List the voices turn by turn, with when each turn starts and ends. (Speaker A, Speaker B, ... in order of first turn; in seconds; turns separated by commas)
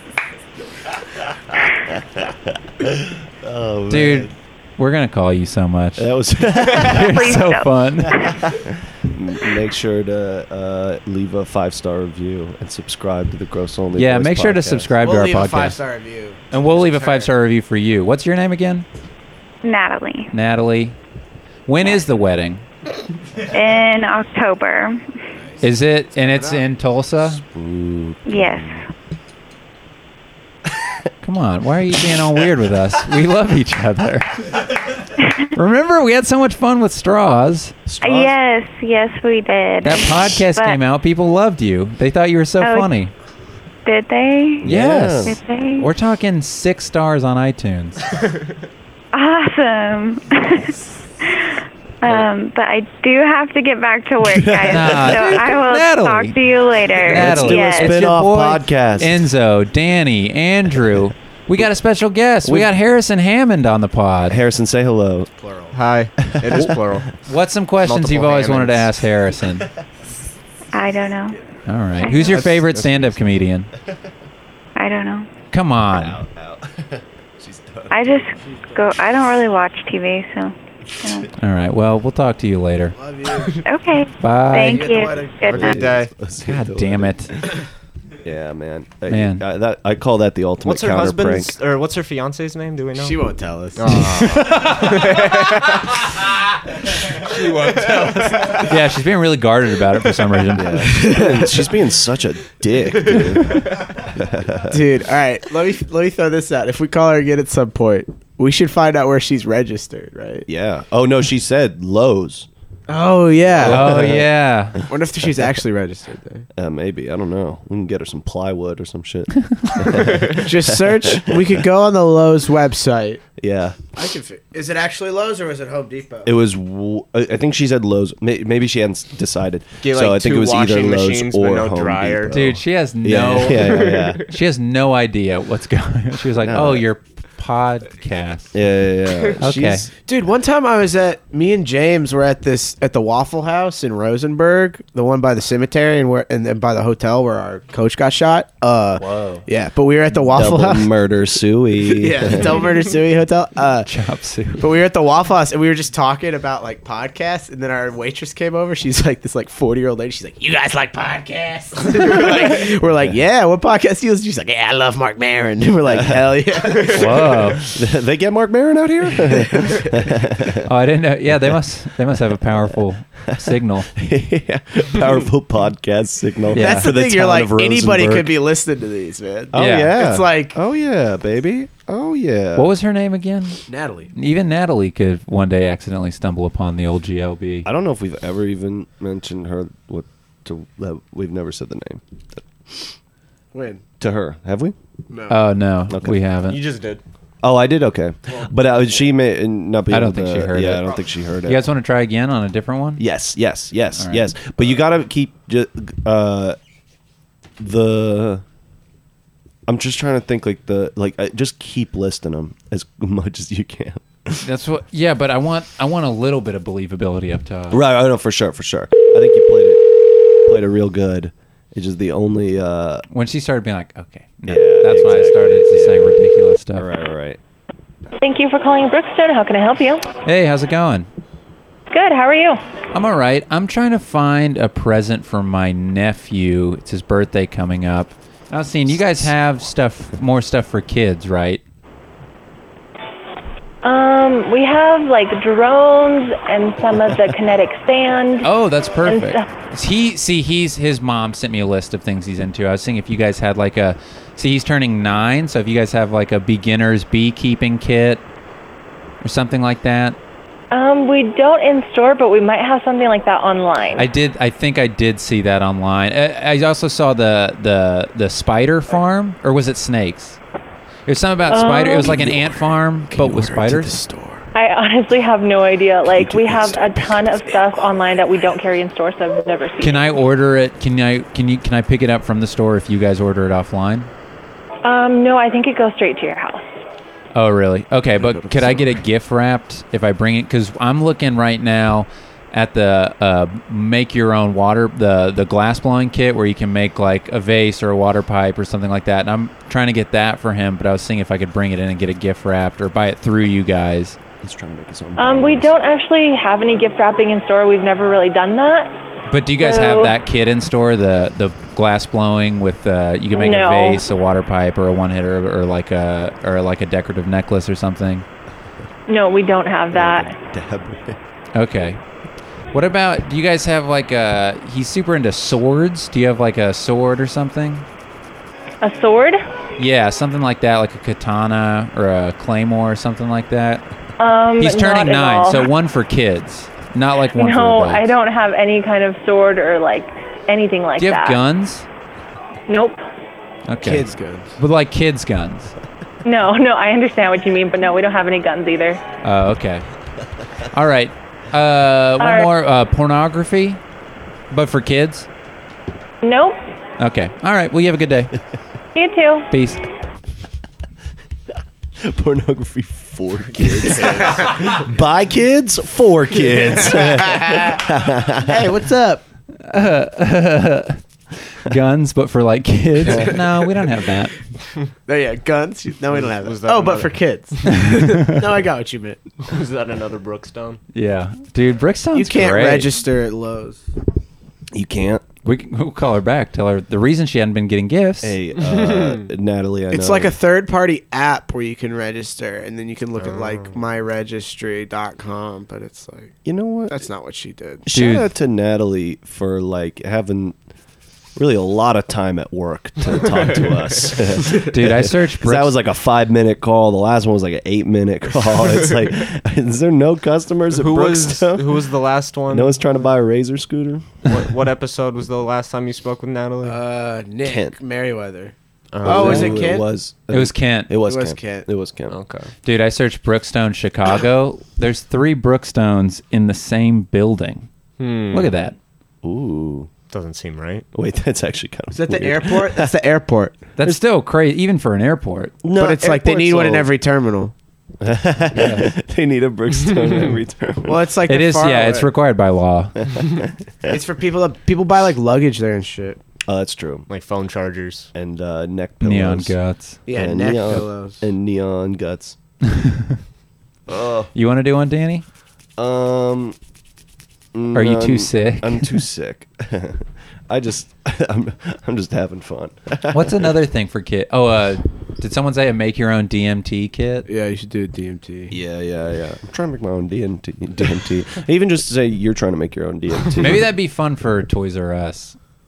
Speaker A: 0.9-4.3, Speaker B: 3.9-8.3, Speaker A: 6.0-7.5, Speaker C: 6.7-8.4, Speaker A: 8.0-14.9, Speaker B: 13.9-15.8, Speaker D: 15.0-17.3, Speaker B: 16.5-18.9, Speaker C: 19.6-20.3, Speaker B: 20.3-21.0, Speaker B: 21.7-22.6, Speaker C: 23.4-25.1, Speaker D: 25.4-26.6, Speaker B: 25.6-27.4, Speaker A: 27.4-28.9, Speaker C: 28.3-28.8, Speaker A: 30.7-31.1, Speaker B: 31.2-35.0, Speaker C: 35.2-35.5, Speaker B: 35.5-37.8, Speaker A: 37.9-38.4, Speaker C: 38.0-40.8, Speaker B: 39.8-43.1, Speaker C: 42.6-43.0, Speaker C: 43.9-44.7, Speaker A: 44.6-45.4, Speaker B: 44.6-48.1, Speaker C: 45.2-45.9, Speaker C: 49.1-58.0, Speaker A: 54.2-55.4, Speaker B: 54.7-56.4, Speaker B: 57.0-64.4, Speaker A: 57.1-59.3, Speaker A: 62.4-62.7, Speaker A: 64.3-65.3, Speaker D: 65.4-65.8, Speaker E: 65.7-67.1, Speaker A: 66.2-67.0, Speaker B: 67.3-69.7, Speaker E: 67.8-68.9, Speaker C: 70.7-71.4, Speaker B: 71.7-73.7, Speaker C: 72.0-72.5, Speaker E: 72.2-73.1, Speaker C: 74.8-75.3, Speaker B: 75.5-76.2, Speaker A: 75.9-78.3, Speaker C: 77.9-81.3, Speaker D: 78.4-78.8, Speaker B: 81.4-83.0, Speaker D: 83.0-83.6, Speaker C: 83.6-85.8, Speaker B: 84.2-85.0, Speaker D: 84.5-85.5, Speaker A: 85.4-87.5, Speaker E: 85.5-86.1, Speaker B: 86.4-87.3, Speaker A: 88.2-91.5, Speaker B: 89.1-89.4, Speaker E: 90.6-93.2, Speaker D: 93.0-94.3, Speaker E: 93.8-96.1, Speaker B: 93.9-95.3, Speaker E: 97.1-98.6, Speaker B: 97.8-101.0, Speaker D: 98.1-98.5, Speaker A: 100.5-104.8, Speaker D: 100.8-101.7, Speaker E: 103.1-103.5, Speaker D: 104.7-110.5, Speaker A: 110.5-112.5, Speaker D: 112.9-114.1, Speaker A: 113.5-114.8, Speaker B: 113.6-114.9, Speaker D: 114.9-116.5, Speaker A: 116.5-121.6, Speaker E: 119.9-120.4, Speaker D: 120.3-123.2, Speaker A: 123.4-123.8, Speaker D: 123.9-126.3, Speaker A: 126.2-134.2, Speaker E: 129.8-132.4, Speaker B: 132.3-138.5, Speaker E: 133.5-134.3, Speaker A: 136.4-136.9, Speaker A: 138.5-139.9, Speaker B: 139.4-139.9, Speaker D: 139.9-150.9, Speaker A: 149.0-149.5, Speaker A: 150.2-152.7, Speaker D: 151.8-153.9, Speaker B: 153.8-154.7, Speaker D: 154.6-167.5, Speaker B: 166.9-167.7, Speaker A: 167.1-170.7, Speaker D: 169.5-169.8, Speaker B: 170.6-173.9, Speaker A: 172.2-178.3, Speaker B: 176.5-176.9, Speaker D: 176.6-180.6, Speaker A: 179.5-182.7, Speaker B: 179.5-180.0, Speaker B: 182.6-187.7, Speaker D: 183.7-184.1, Speaker A: 187.6-192.9, Speaker D: 193.5-193.8, Speaker A: 194.0-194.8, Speaker D: 195.1-195.4, Speaker B: 195.3-196.6, Speaker A: 195.9-196.2, Speaker E: 196.5-197.0, Speaker A: 197.4-201.7, Speaker B: 199.9-203.0, Speaker A: 203.0-206.6, Speaker B: 204.0-204.3, Speaker A: 207.6-208.4, Speaker A: 209.7-214.5, Speaker B: 214.4-217.8, Speaker A: 217.7-219.8, Speaker A: 220.4-223.1, Speaker B: 223.1-226.9, Speaker A: 224.5-227.4, Speaker F: 228.2-230.1, Speaker B: 230.2-231.1, Speaker F: 231.9-232.6, Speaker B: 232.9-241.6, Speaker F: 243.8-248.5, Speaker B: 248.4-258.2, Speaker F: 249.0-249.5, Speaker B: 259.2-260.2, Speaker F: 260.7-264.1, Speaker B: 264.0-270.4, Speaker B: 271.1-274.0, Speaker F: 271.5-272.3, Speaker D: 272.1-272.5, Speaker D: 273.1-274.5, Speaker F: 274.5-280.1, Speaker A: 276.1-277.2, Speaker B: 279.8-284.1, Speaker F: 284.8-286.6, Speaker B: 287.3-304.2, Speaker D: 288.2-289.0, Speaker A: 304.4-305.7, Speaker F: 305.2-308.9, Speaker B: 309.3-318.3, Speaker F: 309.6-310.2, Speaker F: 313.3-314.1, Speaker F: 319.1-320.4, Speaker A: 319.9-321.2, Speaker B: 321.5-322.0, Speaker B: 322.7-327.9, Speaker F: 328.8-329.4, Speaker B: 329.8-333.9, Speaker F: 334.2-335.7, Speaker B: 334.6-338.1, Speaker F: 337.3-341.4, Speaker B: 341.0-341.9, Speaker F: 342.7-343.0, Speaker B: 343.7-345.7, Speaker D: 343.8-344.6, Speaker F: 346.2-349.0, Speaker B: 349.2-349.9, Speaker B: 350.7-353.8, Speaker F: 352.2-352.5, Speaker B: 354.5-355.3, Speaker F: 356.2-356.6, Speaker B: 357.0-358.3, Speaker F: 358.9-359.5, Speaker B: 359.5-359.9, Speaker A: 362.0-368.7, Speaker D: 363.6-364.6, Speaker D: 366.8-367.8, Speaker D: 368.4-369.2, Speaker B: 369.6-371.0, Speaker B: 371.5-374.4, Speaker A: 373.1-373.4, Speaker D: 375.1-379.2, Speaker E: 376.1-377.2, Speaker B: 377.9-378.3, Speaker E: 379.4-380.8, Speaker B: 380.9-382.9, Speaker D: 382.1-383.8, Speaker A: 384.7-385.2, Speaker B: 385.4-388.4, Speaker A: 388.2-390.4, Speaker E: 388.6-389.3, Speaker D: 389.9-397.9, Speaker E: 393.2-393.8, Speaker A: 396.4-397.1, Speaker A: 397.9-400.6, Speaker B: 397.9-398.3, Speaker A: 401.4-411.9, Speaker E: 403.2-404.2, Speaker B: 404.5-405.7, Speaker E: 408.7-409.1, Speaker E: 410.7-412.8, Speaker A: 412.5-414.1, Speaker E: 414.2-416.8, Speaker D: 416.6-419.9, Speaker A: 417.4-417.8, Speaker E: 418.9-419.6, Speaker A: 419.0-422.2, Speaker B: 420.3-420.9, Speaker D: 421.0-421.7, Speaker E: 422.1-422.5, Speaker B: 422.6-427.7, Speaker E: 428.0-428.5, Speaker B: 428.3-428.8, Speaker A: 429.2-429.9, Speaker E: 430.1-430.9, Speaker A: 430.9-432.9, Speaker D: 431.9-433.6, Speaker B: 433.8-435.6, Speaker A: 435.6-436.9, Speaker D: 435.7-437.5, Speaker A: 438.0-441.1, Speaker B: 438.5-438.9, Speaker D: 440.8-442.1, Speaker B: 441.3-443.1, Speaker A: 443.1-443.9, Speaker D: 443.9-446.2, Speaker A: 446.5-447.1, Speaker E: 447.1-448.1, Speaker A: 448.1-449.6, Speaker B: 449.0-450.0, Speaker D: 450.1-451.2, Speaker A: 450.1-452.4, Speaker B: 452.7-453.2, Speaker A: 453.9-454.3, Speaker B: 454.3-455.2, Speaker A: 455.8-456.6, Speaker A: 457.5-463.6, Speaker B: 457.7-459.0, Speaker B: 463.1-467.3, Speaker D: 467.3-468.6, Speaker A: 468.5-473.7, Speaker B: 473.4-475.4